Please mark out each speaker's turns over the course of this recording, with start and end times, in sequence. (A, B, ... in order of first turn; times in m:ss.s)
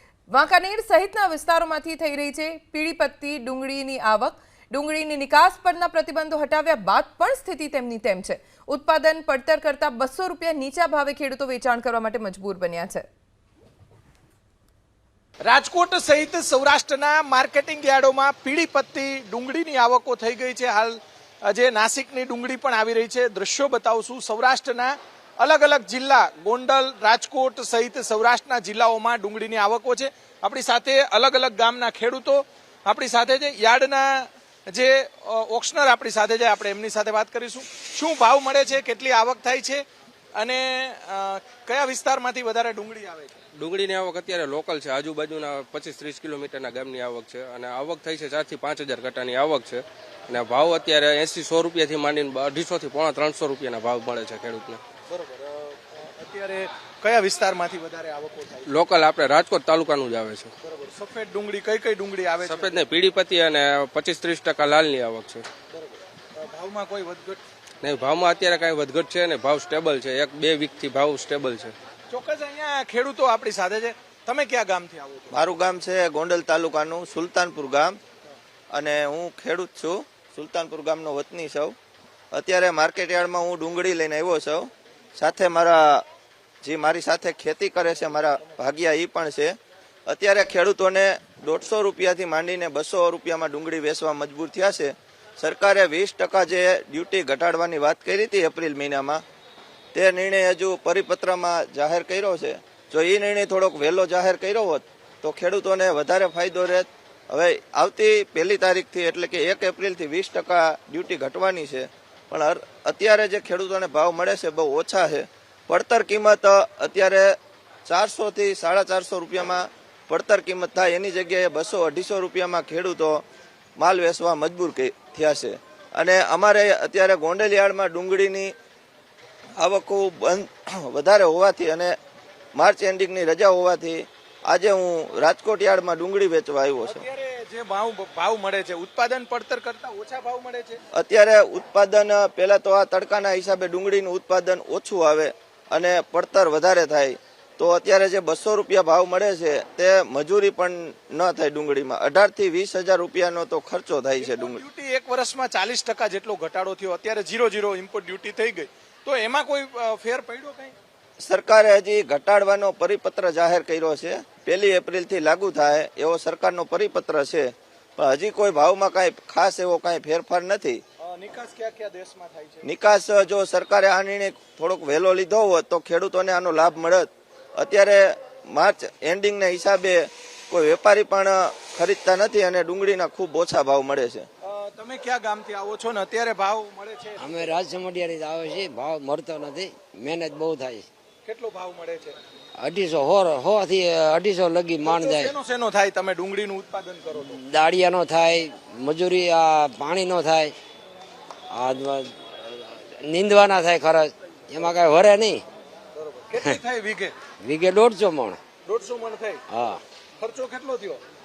0:00.3-0:13.0 A
0:15.4-0:39.8 B
0:40.4-0:43.4 B
0:43.6-0:54.8 C
0:55.1-0:58.7 B
0:58.7-1:00.5 C
1:00.6-1:02.8 B
1:02.4-1:05.4 C
1:05.7-1:07.4 B
1:07.8-1:11.7 C
1:12.1-1:15.3 B
1:15.3-1:18.0 D
1:18.7-1:21.7 D
1:22.3-1:26.0 D
1:26.6-1:29.5 D
1:30.1-1:39.2 D
1:39.9-2:03.2 D
2:03.8-2:08.5 D
2:09.6-2:11.9 D
2:12.5-2:17.0 D
2:16.8-2:20.8 B
2:20.9-2:34.6 D
2:34.2-2:40.7 B
2:41.2-2:50.8 D
2:51.0-2:52.6 B
2:52.6-3:04.3 D
3:04.4-3:07.6 B
3:07.2-3:10.8 E
3:11.2-3:12.2 B
3:12.6-3:15.3 E
3:14.8-3:17.4 B
3:17.2-3:20.5 E
3:21.5-3:25.4 E
3:26.0-3:27.2 B
3:27.4-3:28.4 E
3:28.6-3:29.4 B
3:29.5-3:29.8 E
3:30.2-3:31.0 B